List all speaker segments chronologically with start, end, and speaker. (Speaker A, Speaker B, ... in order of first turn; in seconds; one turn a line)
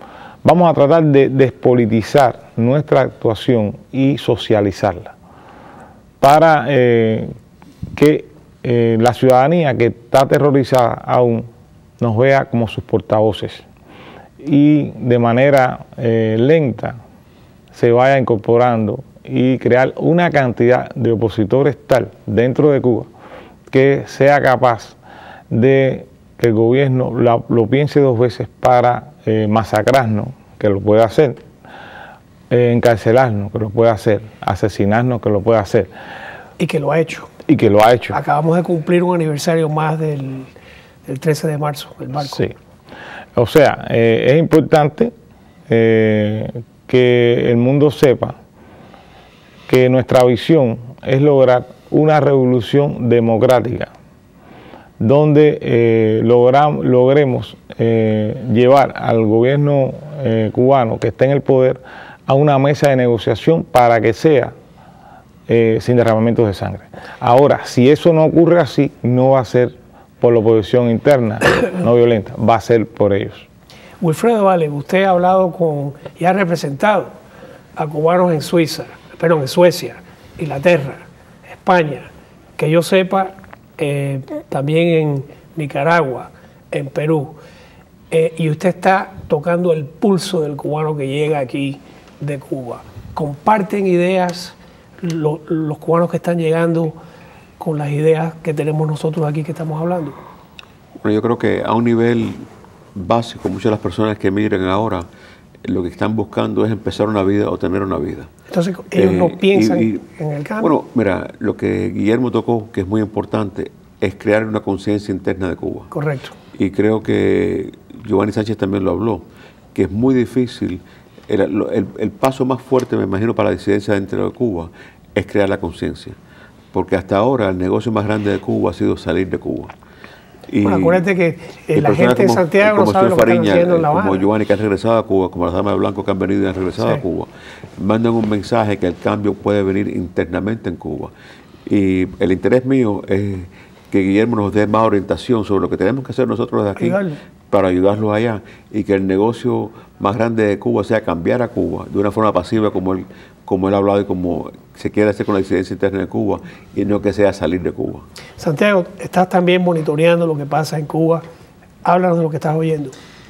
Speaker A: 0.4-5.1
Speaker A: 6.2-7.3
Speaker A: 7.9-11.5
Speaker A: 12.0-13.7
Speaker A: 14.4-17.0
Speaker A: 17.7-23.1
Speaker A: 23.7-25.0
Speaker A: 25.5-31.4
Speaker A: 32.5-35.9
Speaker B: 36.6-37.3
Speaker A: 37.5-38.2
Speaker B: 38.1-40.5
Speaker B: 41.1-42.5
Speaker A: 42.2-42.5
Speaker A: 43.4-45.1
Speaker A: 45.7-48.4
Speaker A: 49.7-53.9
Speaker A: 55.0-64.5
Speaker A: 65.5-73.5
Speaker B: 74.0-77.1
Speaker B: 77.8-81.0
Speaker B: 81.6-87.4
Speaker B: 88.1-97.0
Speaker B: 97.6-100.2
Speaker C: 101.0-105.1
Speaker C: 105.7-108.3
Speaker B: 108.5-110.7
Speaker C: 109.0-110.0
Speaker C: 110.6-115.9
Speaker B: 115.9-116.4
Speaker C: 116.5-126.2
Speaker C: 126.7-129.7
Speaker C: 130.5-131.1
Speaker B: 130.6-134.3
Speaker C: 131.7-141.1
Speaker C: 141.7-158.1
Speaker B: 146.8-147.2
Speaker B: 158.4-161.2
Speaker B: 161.8-163.0